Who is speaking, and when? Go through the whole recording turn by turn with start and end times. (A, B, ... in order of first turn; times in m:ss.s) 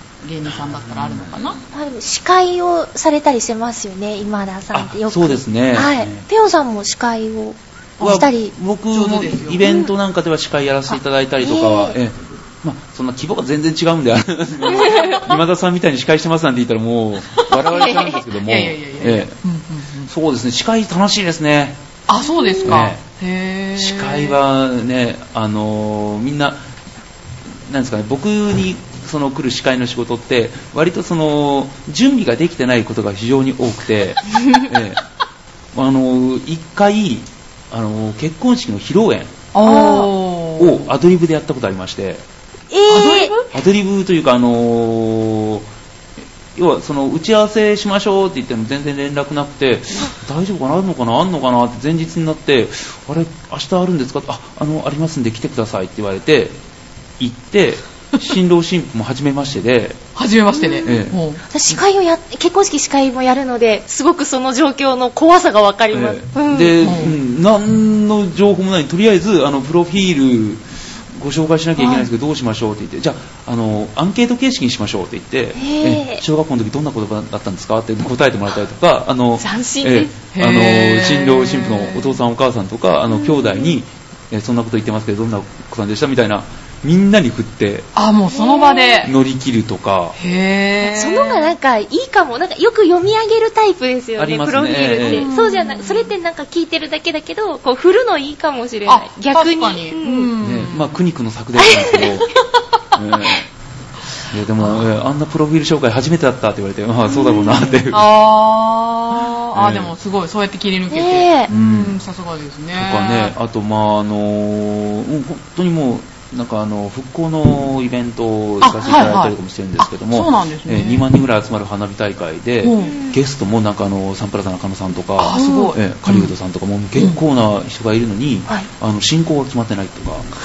0:00.2-0:01.6 A
0:00.4-0:01.6 B
0:01.7-0:08.5 C
0:04.7-0:06.3 B
0:08.0-0:08.3 A
0:08.0-0:19.4 B
0:08.9-0:09.6 A
0:09.6-0:09.9 C
0:11.4-0:12.0 C
0:14.8-0:15.2 C
0:17.3-0:17.6 A
0:17.7-0:18.2 C
0:18.4-0:20.1 A
0:20.1-0:21.8 B
0:22.1-0:24.4 A
0:22.2-0:22.8 C
0:22.6-0:23.0 B
0:23.8-0:26.6 B
0:27.7-0:35.0 B
0:35.7-0:39.4 B
0:39.5-0:40.9 A
0:39.6-0:40.1 C
0:40.6-0:42.2 B
0:42.7-0:43.3 C
0:42.9-0:43.5 A
0:43.5-0:45.7 B
0:46.5-0:56.6 B
0:57.2-1:00.0 B
1:00.1-1:01.4 A
1:00.6-1:00.9 C
1:00.8-1:01.2 B
1:01.5-1:06.9 C
1:05.9-1:27.9 B
1:06.8-1:07.2 A
1:15.6-1:16.2 C
1:19.4-1:20.1 C
1:20.3-1:22.2 A
1:23.1-1:23.7 C
1:27.9-1:29.1 A
1:28.3-1:29.0 C
1:29.0-1:30.2 B
1:30.2-1:31.5 A
1:30.8-1:40.3 C
1:34.2-1:35.3 B
1:35.0-1:36.1 A
1:38.8-1:41.0 A
1:40.4-1:42.3 B
1:41.6-1:42.2 C
1:42.9-1:43.4 B
1:44.3-1:48.1 B
1:44.6-1:45.0 A
1:47.1-1:47.7 C
1:47.9-1:53.3 A
1:49.5-1:49.9 B
1:50.9-1:51.5 C
1:51.5-1:52.0 B
1:52.8-2:10.2 B
1:58.6-2:01.0 A
2:02.6-2:03.0 A
2:02.8-2:03.2 C
2:05.2-2:06.3 A
2:05.3-2:05.7 C
2:07.0-2:07.2 A